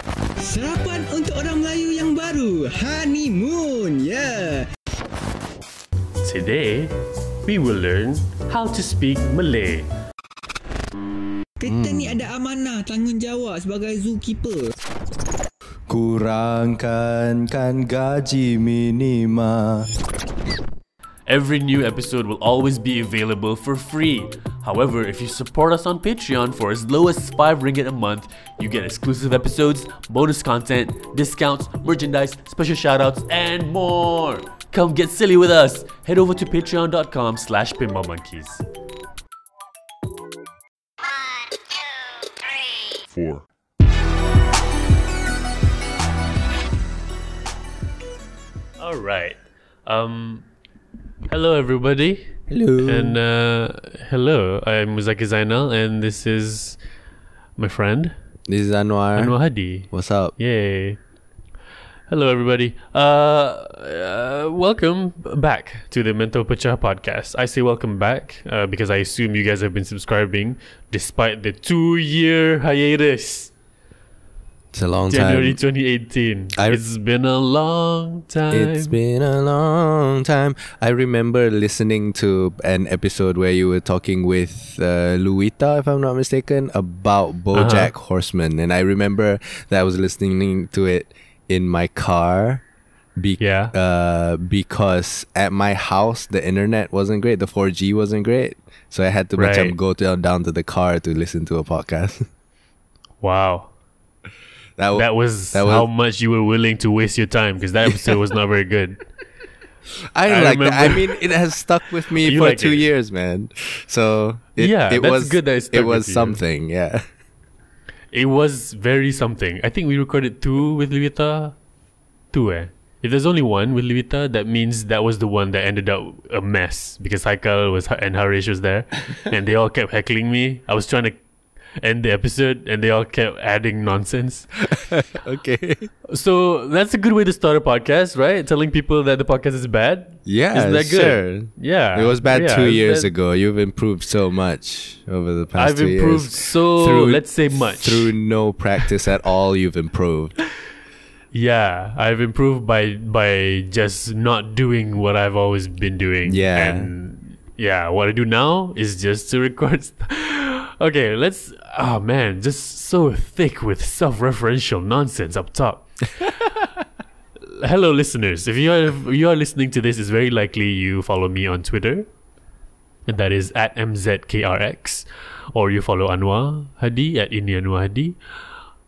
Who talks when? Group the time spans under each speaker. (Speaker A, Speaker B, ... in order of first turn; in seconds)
Speaker A: 0.4-4.7, 11.6-14.7
Speaker B: 6.2-9.9, 21.3-38.6, 48.8-50.5, 51.3-56.8, 57.6-58.1, 59.1-61.0, 62.1-73.5, 75.1-79.0, 87.5-87.9, 93.4-93.7, 99.4-99.7, 103.2-103.7, 105.0-109.0, 110.3-111.2, 112.1-112.9, 114.6-116.4, 118.1-121.5, 122.3-131.2, 131.8-134.5, 136.1-143.1, 145.6-148.1, 151.3-166.4, 167.5-172.1, 173.1-178.2
Speaker C: 11.7-12.3, 15.9-19.9, 52.5-53.2, 58.5-59.4, 59.9-60.3, 74.7-75.6, 76.6-76.8, 78.5-92.6, 93.2-102.3, 104.8-105.9, 107.9-108.1, 110.2-117.0, 134.7-135.9, 140.3-147.3, 147.8-150.4, 156.3-156.9